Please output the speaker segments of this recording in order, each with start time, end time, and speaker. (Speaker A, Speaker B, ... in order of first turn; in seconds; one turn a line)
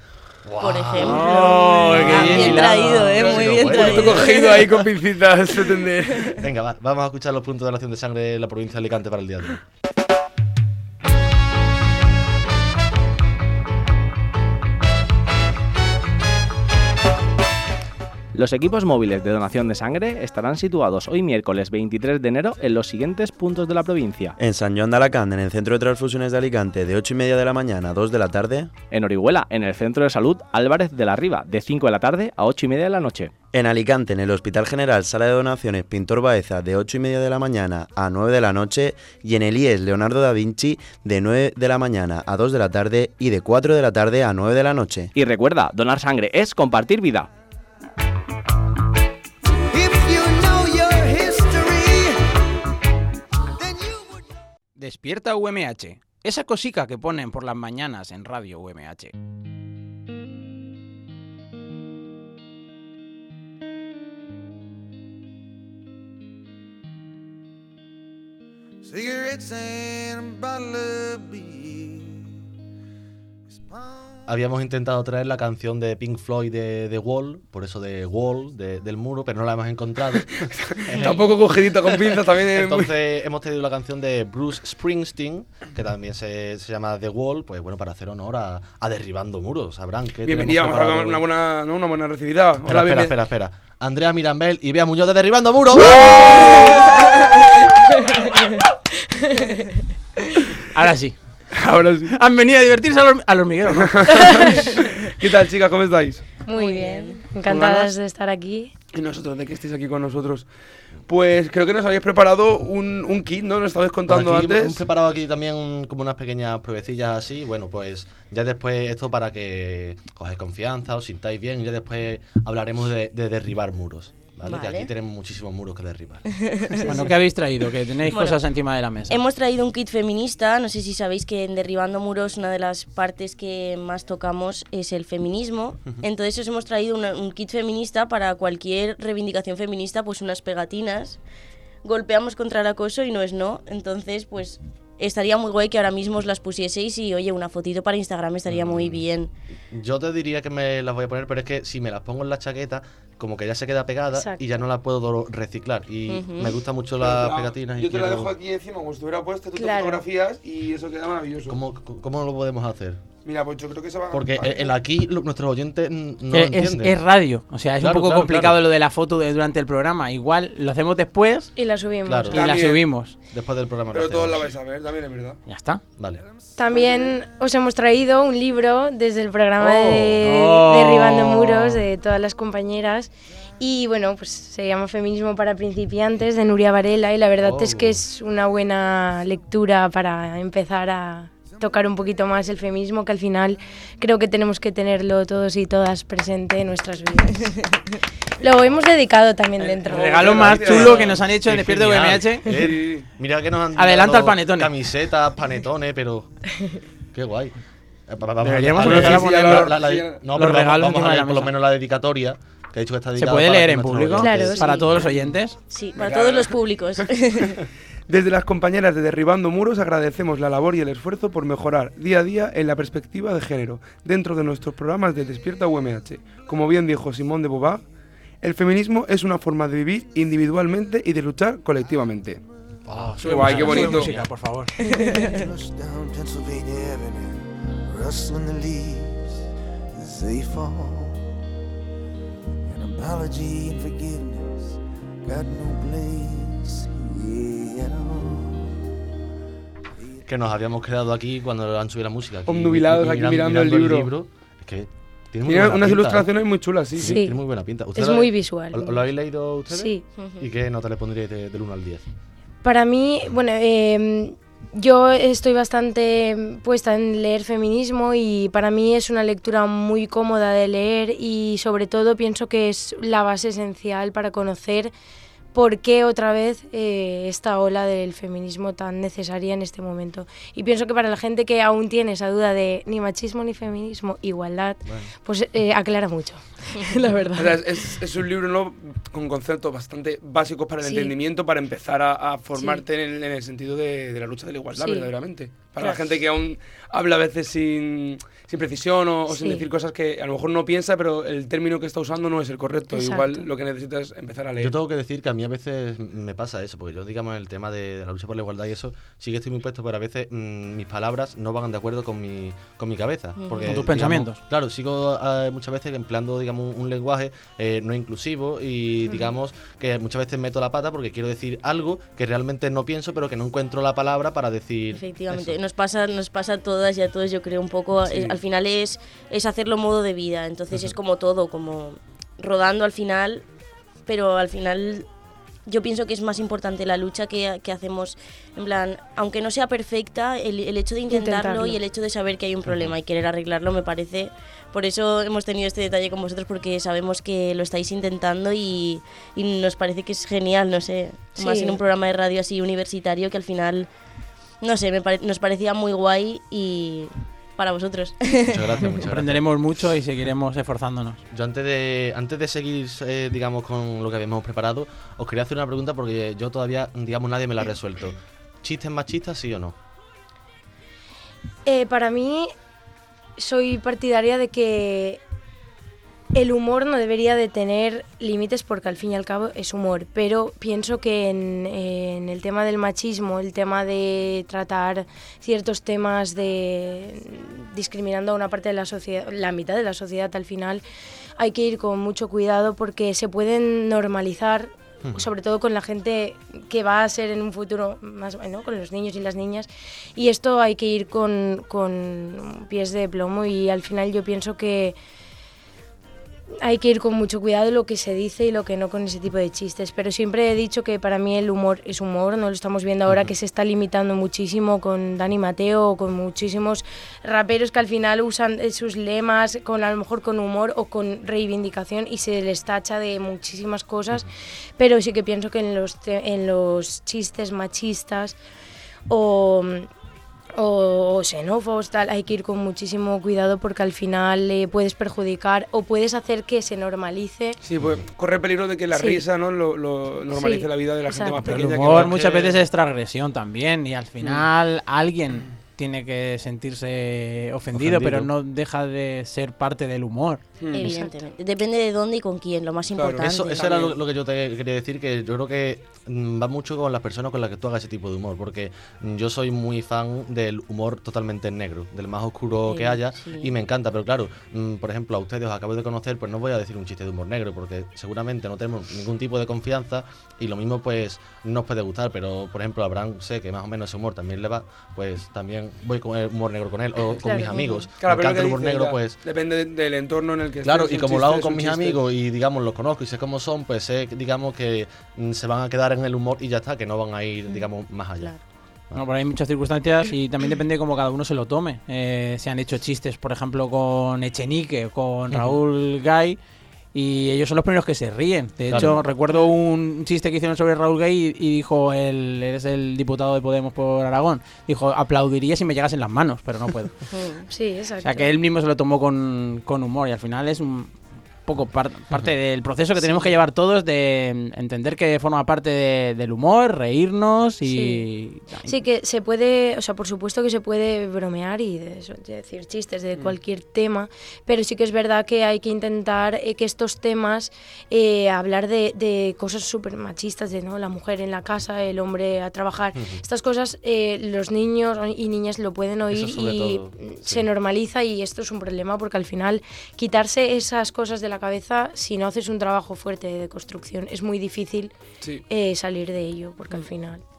Speaker A: 0.4-4.3
Speaker B: 0.6-4.9
Speaker C: 1.0-3.0
Speaker D: 3.0-6.4
Speaker A: 6.3-9.6
Speaker E: 18.3-24.3
Speaker F: 24.4-28.7
Speaker E: 28.9-33.3
Speaker F: 33.5-45.1
Speaker E: 45.1-47.3
Speaker G: 49.7-52.4
Speaker G: 53.6-54.3
Speaker C: 54.8-59.1
Speaker G: 68.8-72.3
Speaker G: 73.5-74.2
Speaker A: 74.2-91.2
Speaker D: 80.4-82.9
Speaker D: 90.2-93.1
Speaker A: 92.6-96.6
Speaker H: 97.9-98.4
Speaker H: 99.0-99.7
Speaker C: 100.7-101.2
Speaker D: 101.5-102.1
Speaker C: 102.1-104.3
Speaker D: 103.7-106.2
Speaker H: 104.3-104.7
Speaker H: 106.4-108.7
Speaker B: 106.5-107.2
Speaker C: 107.5-107.9
Speaker D: 108.9-110.5
Speaker D: 111.1-114.8
Speaker A: 114.1-126.9
Speaker B: 124.4-124.9
Speaker B: 126.3-127.0
Speaker C: 126.8-129.2
Speaker B: 128.1-128.4
Speaker B: 129.1-141.2
Speaker B: 141.8-149.3
Speaker A: 148.5-149.0
Speaker A: 149.7-158.3
Speaker H: 154.1-154.4
Speaker B: 156.1-156.6
Speaker D: 157.0-161.6
Speaker H: 159.6-160.0
Speaker A: 161.5-163.0
Speaker D: 163.2-164.7
Speaker A: 164.1-167.0
Speaker C: 166.3-171.5
Speaker A: 167.8-168.6
Speaker H: 171.6-172.4
Speaker A: 172.0-172.4
Speaker C: 172.3-173.1
Speaker D: 172.3-172.8
Speaker A: 173.3-174.5
Speaker D: 173.9-175.4
Speaker C: 175.5-175.8
Speaker A: 176.0-176.2
Speaker H: 176.6-197.8
Speaker D: 176.7-177.1
Speaker A: 179.6-180.2
Speaker C: 179.8-181.8
Speaker A: 187.4-188.0
Speaker H: 198.4-200.5
Speaker C: 199.6-202.5
Speaker D: 199.9-201.2
Speaker A: 200.5-206.3
Speaker D: 202.5-203.1
Speaker C: 203.8-204.7
Speaker A: 207.1-207.5
Speaker A: 208.1-214.8
Speaker C: 208.4-209.8
Speaker D: 208.8-210.2
Speaker C: 210.3-211.5
Speaker C: 213.2-215.6
Speaker H: 214.2-215.0
Speaker B: 215.7-217.6
Speaker D: 215.9-216.6
Speaker D: 218.1-227.8
Speaker D: 228.4-232.4
Speaker A: 232.9-234.0
Speaker C: 232.9-234.7
Speaker D: 233.2-234.2
Speaker B: 234.9-235.3
Speaker G: 235.0-241.3
Speaker G: 242.6-248.9
Speaker A: 250.2-256.3
Speaker D: 252.5-254.1
Speaker D: 255.4-257.2
Speaker A: 256.9-262.0
Speaker H: 257.0-257.4
Speaker H: 257.9-259.0
Speaker H: 259.7-260.0
Speaker B: 260.2-260.4
Speaker H: 262.6-274.9
Speaker H: 275.5-288.0
Speaker A: 284.9-285.1
Speaker D: 287.3-304.7
Speaker H: 290.8-291.1
Speaker H: 292.6-292.8
Speaker H: 294.8-295.1
Speaker H: 299.3-299.6
Speaker H: 302.9-303.4
Speaker A: 304.6-325.6
Speaker B: 313.4-313.8
Speaker C: 313.6-314.4
Speaker B: 324.9-333.4
Speaker D: 328.1-328.4
Speaker B: 334.1-335.1
Speaker B: 335.6-353.9
Speaker H: 341.1-341.8
Speaker H: 351.4-351.8
Speaker B: 354.6-358.9
Speaker A: 358.5-359.4
Speaker C: 359.1-361.2
Speaker A: 361.3-369.8
Speaker H: 371.6-372.5
Speaker H: 373.4-375.2
Speaker H: 376.3-390.8
Speaker H: 391.4-404.9
Speaker A: 395.0-395.3
Speaker H: 406.6-428.4
Speaker H: 429.1-429.9
Speaker H: 430.6-437.6
Speaker D: 437.6-442.6
Speaker H: 438.9-439.2
Speaker H: 440.3-441.4
Speaker C: 441.4-450.4
Speaker A: 447.7-448.3
Speaker D: 450.6-450.9
Speaker B: 450.7-453.7
Speaker H: 450.7-451.1
Speaker D: 452.9-453.9
Speaker A: 453.2-479.2
Speaker B: 462.6-463.5
Speaker H: 477.2-477.9
Speaker D: 478.0-482.0
Speaker A: 480.6-488.3
Speaker C: 488.9-496.4
Speaker A: 495.3-495.6
Speaker C: 496.9-506.9
Speaker A: 498.7-499.0
Speaker B: 507.1-507.5
Speaker H: 507.5-508.3
Speaker C: 508.0-510.9
Speaker C: 511.4-518.8
Speaker H: 517.6-518.0
Speaker H: 518.6-544.9
Speaker A: 532.9-533.2
Speaker A: 536.1-537.5
Speaker H: 545.5-547.2